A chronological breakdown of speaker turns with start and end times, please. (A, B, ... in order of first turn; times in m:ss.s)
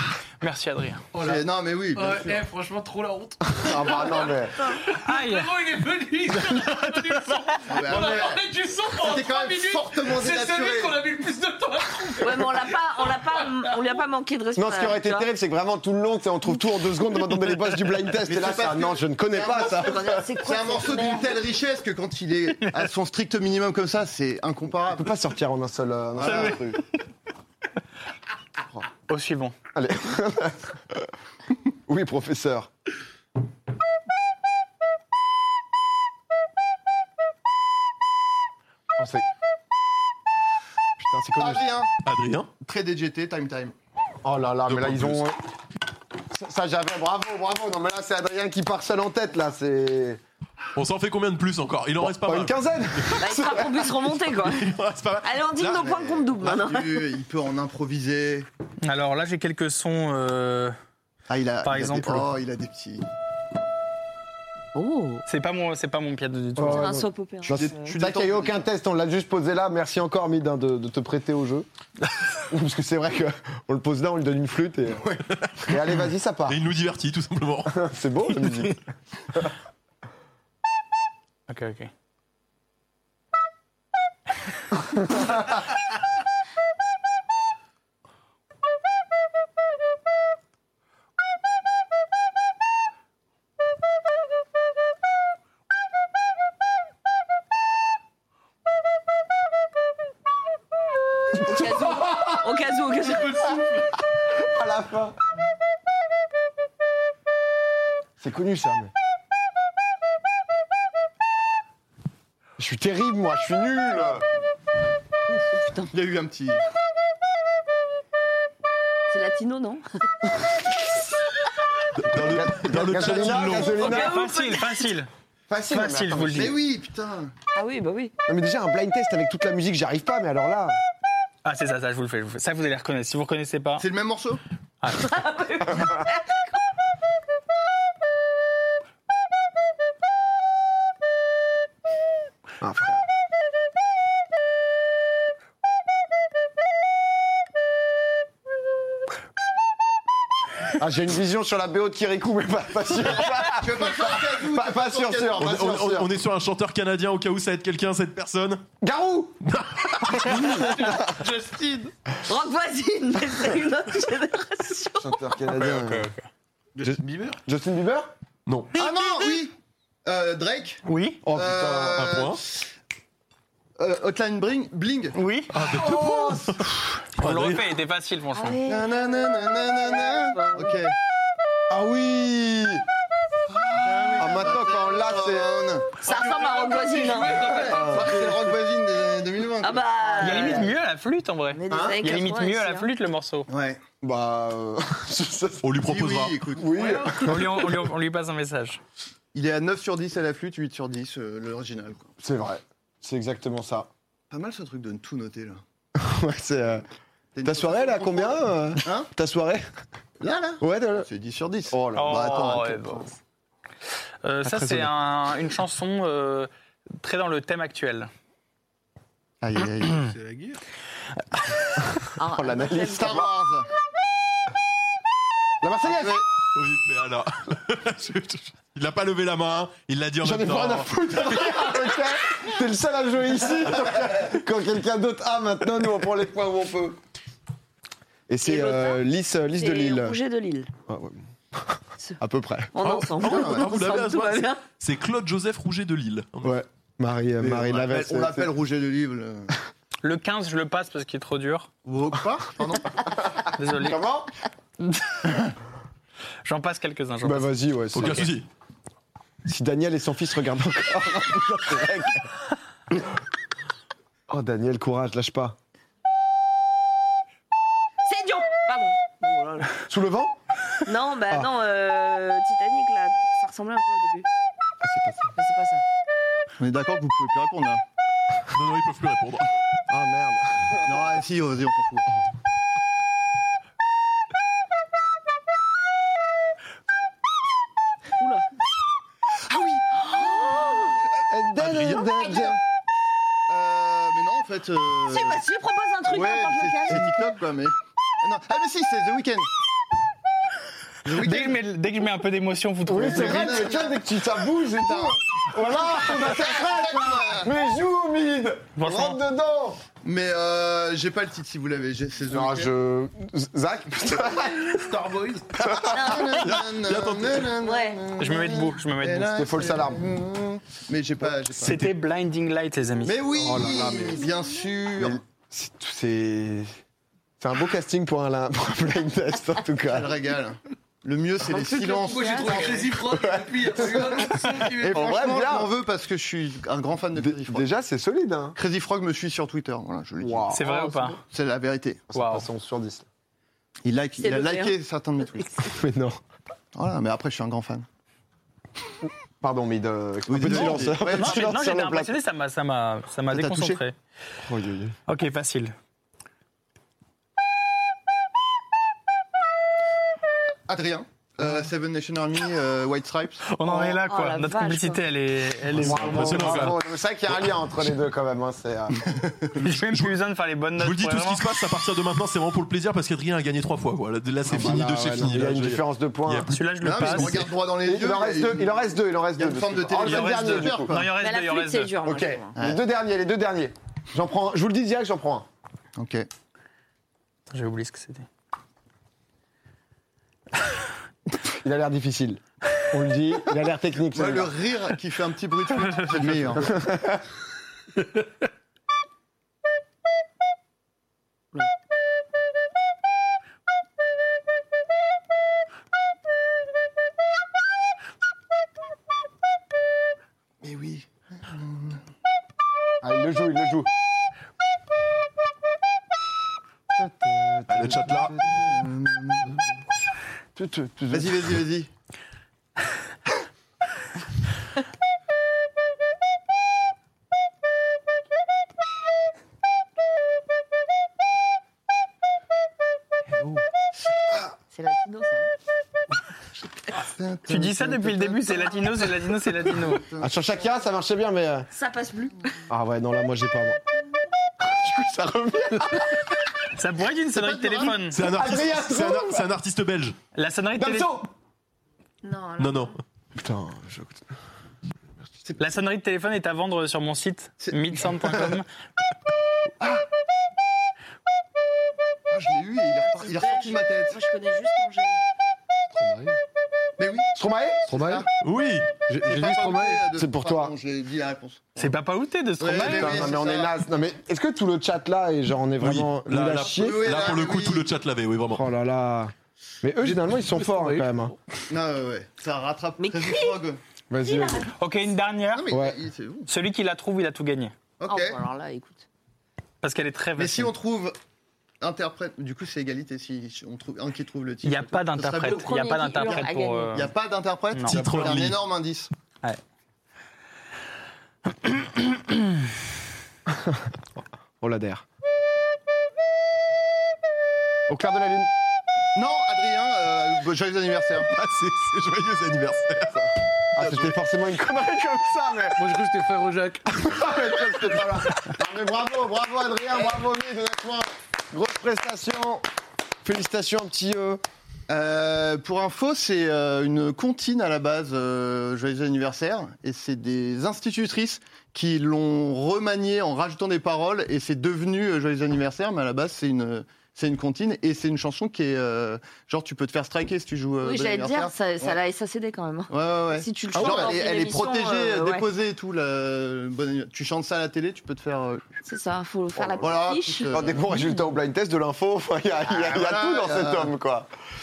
0:00.4-0:01.0 A
0:01.1-0:13.8 B
0:01.2-0:02.4 C
0:03.5-0:04.7 D
0:04.9-0:05.5 A
0:06.7-0:07.6 A
0:07.7-0:08.4 C
0:09.0-0:11.0 C
0:12.2-0:15.3 E
0:14.6-0:20.2 D
0:18.1-0:25.1 C
0:19.8-0:21.4 E
0:24.9-0:26.8 D
0:26.2-0:26.7 C
0:26.2-0:26.6 A
0:29.1-0:29.5 A
0:29.7-0:31.1 D
0:31.9-0:32.7 D
0:39.0-0:39.2 D
0:41.0-0:41.6 D
0:41.4-0:41.9 C
0:42.0-0:42.5 F
0:42.6-0:43.7 C
0:44.2-0:45.4 D
0:44.7-0:45.2 F
0:46.3-0:50.2 D
0:50.7-0:55.9 F
0:52.0-0:53.8 D
0:53.2-0:57.1 E
0:55.8-0:58.5 C
0:58.8-1:00.8 A
1:01.3-1:03.0 C
1:01.6-1:02.3 A
1:04.7-1:05.2 E
1:05.3-1:07.0 A
1:06.6-1:11.7 D
1:06.6-1:07.9 E
1:07.5-1:08.6 C
1:12.4-1:16.6 D
1:16.5-1:17.8 F
1:17.7-1:18.8 D
1:21.5-1:21.9 A
1:41.3-1:43.6 E
1:41.4-1:42.2 D
1:43.0-1:43.9 B
1:44.4-1:45.1 D
1:48.2-1:48.9 D
1:52.6-1:54.2 D
1:55.3-1:55.9 E
1:55.9-1:56.6 C
1:59.1-1:59.8 E
2:02.0-2:04.0 F
2:02.1-2:04.2 D
2:02.7-2:03.8 C
2:03.6-2:04.8 E
2:03.8-2:05.1 A
2:05.5-2:06.6 D
2:05.7-2:06.5 A
2:06.3-2:07.3 C
2:07.5-2:08.1 E
2:08.3-2:10.8 D
2:11.4-2:13.8 A
2:13.8-2:14.4 C
2:14.8-2:15.1 A
2:14.9-2:16.4 E
2:22.6-2:23.0 D
2:30.7-2:36.1 D
2:33.5-2:35.6 C
2:35.4-2:38.6 F
2:38.8-2:39.4 D
2:39.4-2:40.4 F
2:40.1-2:41.1 D
2:40.3-2:41.9 B
2:42.2-2:45.2 E
2:45.0-2:46.1 D
2:45.4-2:46.2 A
2:46.8-2:47.4 B
2:46.8-2:48.1 D
2:48.5-2:48.8 F
2:48.7-2:49.5 C
2:50.0-2:52.6 C
2:50.8-2:51.2 A
2:51.2-2:52.2 D
2:51.9-2:52.4 F
2:53.8-2:55.2 C
2:55.1-2:55.5 A
2:55.5-2:57.7 F
2:55.7-2:56.6 D
2:57.2-2:58.6 A
2:58.3-3:00.7 E
2:58.6-3:00.9 C
3:01.7-3:02.8 D
3:03.7-3:06.0 C
3:04.1-3:05.5 D
3:06.0-3:07.6 E
3:06.0-3:08.2 B
3:07.5-3:08.5 D
3:07.7-3:10.7 C
3:09.6-3:10.7 E
3:10.2-3:13.5 A
3:11.5-3:12.9 E
3:11.7-3:12.0 D
3:13.5-3:13.8 C
3:14.0-3:15.8 D
3:15.6-3:16.4 F
3:15.8-3:17.2 C
3:16.5-3:17.7 D
3:16.7-3:17.3 B
3:17.2-3:18.8 A
3:19.3-3:22.1 C
3:22.2-3:23.9 D
3:24.3-3:25.6 C
3:26.0-3:26.8 D
3:27.3-3:29.1 C
3:27.4-3:29.6 D
3:30.2-3:33.1 C
3:30.6-3:31.1 D
3:31.7-3:32.6 D
3:31.9-3:33.1 A
3:34.2-3:36.5 A
3:34.4-3:34.9 D
3:37.0-3:38.1 A
3:39.4-3:40.0 C
3:40.0-3:40.6 B
3:42.2-3:43.2 E
3:42.3-3:43.3 D
3:42.8-3:43.7 C
3:45.6-3:46.2 D
3:45.8-3:46.2 C
3:46.5-3:50.9 F
3:50.2-3:57.0 D
3:58.3-4:00.2 D
3:58.4-3:59.0 E
3:59.6-4:00.7 E
4:00.9-4:02.7 D
4:02.7-4:04.6 E
4:02.8-4:06.6 F
4:03.2-4:03.7 C
4:06.4-4:08.5 D
4:07.4-4:09.6 C
4:10.0-4:11.7 A
4:11.8-4:13.0 C
4:13.2-4:14.3 D
4:13.5-4:14.0 A
4:16.4-4:17.5 A
4:17.2-4:18.4 D
4:17.9-4:18.5 F
4:19.4-4:22.3 D
4:24.3-4:25.6 D
4:28.0-4:29.8 E
4:29.9-4:30.4 D
4:30.8-4:34.3 E
4:34.8-4:35.3 D
4:35.3-4:35.8 E
4:36.6-4:37.8 C
4:38.5-4:39.5 F
4:39.9-4:41.1 D
4:40.8-4:42.1 C
4:48.2-4:48.4 E
4:49.5-4:49.8 C
4:49.9-4:51.0 E
4:51.3-4:52.6 D
4:51.6-4:52.1 F
4:53.5-4:55.4 C
4:55.1-4:57.2 E
4:56.1-4:59.5 C
5:01.0-5:01.6 C
5:01.1-5:03.8 A
5:02.8-5:09.8 D
5:02.9-5:04.0 C
5:04.6-5:07.5 C
5:08.8-5:09.2 A
5:10.0-5:12.7 C
5:12.3-5:14.9 D
5:14.7-5:15.6 B
5:15.6-5:16.0 D
5:15.7-5:21.9 C
5:15.7-5:17.5 F
5:15.9-5:16.4 E
5:17.6-5:18.0 E
5:18.2-5:19.4 A
5:19.2-5:20.0 D
5:21.5-5:23.2 A
5:23.0-5:25.2 C
5:23.3-5:24.3 D
5:23.9-5:24.2 E
5:25.0-5:26.8 D
5:27.4-5:30.1 D
5:29.9-5:32.9 C
5:31.5-5:32.8 E
5:32.0-5:35.1 B
5:33.0-5:35.7 D
5:34.8-5:37.7 C
5:37.2-5:38.6 D
5:38.6-5:40.5 C
5:40.2-5:41.0 D
5:40.5-5:41.2 A
5:41.2-5:42.1 C
5:42.1-5:43.0 D
5:42.1-5:42.5 A
5:43.8-5:45.6 C
5:44.2-5:45.7 E
5:45.6-5:46.2 D
5:46.7-5:47.8 C
5:49.4-5:52.1 D
5:50.3-5:51.4 C
5:50.5-5:53.9 A
5:53.3-5:53.8 C
5:54.4-5:54.9 D
5:55.1-5:55.7 A
6:00.7-6:03.5 C
6:03.4-6:06.7 A
6:03.7-6:05.0 E
6:05.7-6:07.5 F
6:05.8-6:09.0 D
6:09.0-6:09.6 C
6:09.6-6:10.1 F
6:09.6-6:11.4 A
6:10.8-6:17.4 F
6:14.4-6:16.5 D
6:16.5-6:17.4 A
6:16.8-6:18.8 C
6:17.8-6:21.0 D
6:19.4-6:21.1 C
6:19.9-6:22.0 A
6:21.1-6:22.5 E
6:22.0-6:25.5 D
6:26.0-6:26.3 C
6:27.5-6:28.3 A
6:31.5-6:34.5 D
6:34.1-6:36.8 C
6:36.5-6:37.2 D
6:50.6-6:52.0 C
6:53.0-6:53.9 D
6:56.9-6:58.7 D
6:57.7-6:58.4 F
6:58.5-6:59.6 C
7:00.6-7:01.6 D
7:01.1-7:01.9 C
7:13.3-7:13.6 D
7:14.7-7:15.5 E
7:16.9-7:20.4 C
7:17.5-7:20.0 A
7:20.2-7:21.7 D
7:21.7-7:22.7 E
7:22.7-7:23.8 D
7:24.6-7:26.4 D
7:26.7-7:28.2 A
7:27.3-7:28.0 C
7:28.1-7:30.2 F
7:28.2-7:29.5 D
7:30.3-7:31.1 A
7:30.8-7:31.3 D
7:32.2-7:33.0 E
7:32.6-7:33.0 F
7:33.4-7:34.3 D
7:35.6-7:38.6 A
7:37.6-7:38.5 C
7:42.3-7:44.2 C
7:43.1-7:45.2 E
7:45.9-7:46.4 B
7:47.0-7:47.3 C
7:47.3-7:48.2 D
7:47.9-7:48.2 B
7:47.9-7:48.3 C
7:48.4-7:48.9 F
7:49.1-7:50.7 D
7:49.2-7:51.9 C
7:51.8-7:53.4 A
7:52.6-7:53.8 C
7:52.8-7:57.2 D
7:55.8-7:58.6 F
7:56.5-7:57.8 C
7:58.5-8:01.3 D
8:00.0-8:01.1 B
8:01.7-8:03.8 C
8:03.0-8:03.6 E
8:04.1-8:04.7 D
8:04.2-8:04.7 E
8:04.8-8:05.6 A
8:05.5-8:06.5 C
8:05.7-8:06.0 D
8:06.5-8:07.7 A
8:08.0-8:08.4 C
8:08.1-8:09.0 E
8:09.8-8:10.7 A
8:10.4-8:11.2 C
8:11.8-8:19.1 C
8:14.6-8:17.1 A
8:15.3-8:17.0 E
8:17.7-8:18.0 A
8:17.8-8:18.6 F
8:21.6-8:22.4 A
8:23.5-8:23.8 D
8:24.6-8:25.0 D
8:27.9-8:28.5 D
8:29.1-8:31.3 C
8:31.2-8:34.2 F
8:33.7-8:35.8 D
8:35.8-8:37.0 B
8:36.8-8:42.6 D
8:43.2-8:44.4 D
8:44.9-9:02.0 C
9:00.8-9:05.5 E
9:02.9-9:08.7 C
9:03.8-9:04.2 D
9:08.8-9:10.6 E
9:09.6-9:09.9 D
9:09.8-9:11.0 C
9:10.5-9:14.3 D
9:12.7-9:13.9 C